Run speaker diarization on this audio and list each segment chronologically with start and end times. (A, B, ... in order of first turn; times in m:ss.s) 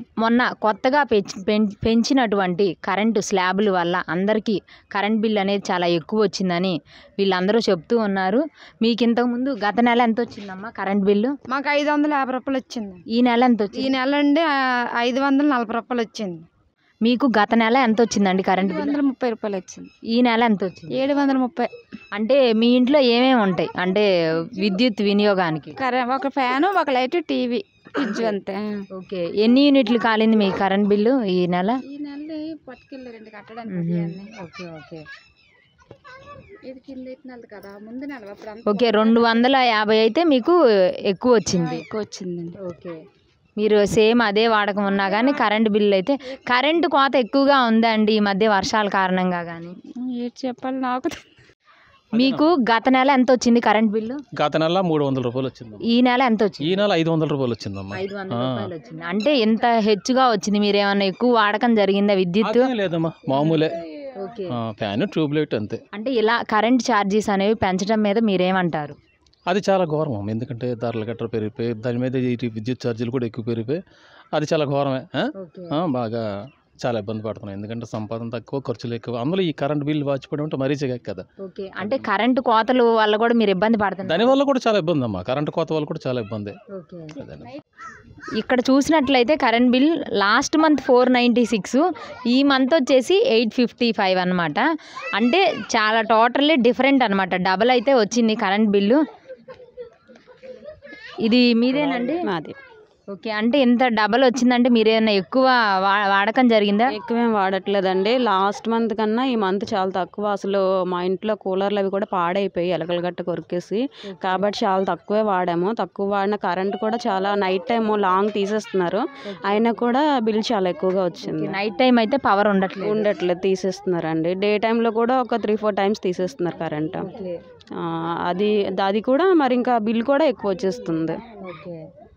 0:00.2-0:11.3 A
0:11.5-0:13.0 B
0:13.1-0:14.0 A
0:13.7-0:14.5 B
0:15.0-0:16.5 B
0:17.0-0:19.0 A
0:18.6-0:19.9 B
0:20.1-0:21.0 A
0:20.9-0:21.7 B
0:22.1-0:25.8 A
0:25.8-0:28.8 B
0:28.0-0:28.3 A
0:29.0-0:31.8 A
0:31.9-0:34.3 B
0:33.7-0:35.0 A
0:36.7-0:39.4 B
0:38.7-0:40.6 A
0:41.1-0:41.8 A
0:41.5-0:42.6 B
0:42.6-0:43.0 A
0:43.6-0:49.8 A
0:50.0-0:51.2 B
0:52.1-0:52.5 C
0:52.1-0:54.2 A
0:54.4-0:55.8 C
0:55.9-0:56.8 A
0:56.6-0:58.7 C
0:57.9-1:02.7 A
1:02.4-1:03.7 C
1:04.2-1:04.5 A
1:04.5-1:05.8 C
1:06.0-1:09.0 A
1:09.5-1:13.8 C
1:14.3-1:15.2 C
1:15.4-1:15.8 A
1:15.7-1:16.2 C
1:16.8-1:21.2 C
1:21.4-1:24.4 A
1:21.8-1:22.0 C
1:24.0-1:26.6 C
1:26.7-1:27.1 A
1:27.2-1:27.5 C
1:28.4-1:34.6 A
1:35.2-1:39.0 A
1:41.2-1:42.3 A
1:42.2-1:42.6 D
1:43.1-1:46.9 A
1:46.9-2:01.6 D
1:54.1-1:54.4 A
1:59.3-1:59.8 A
2:01.3-2:03.1 A
2:02.8-2:07.1 D
2:07.0-2:07.4 A
2:07.8-2:11.2 D
2:11.4-2:11.8 A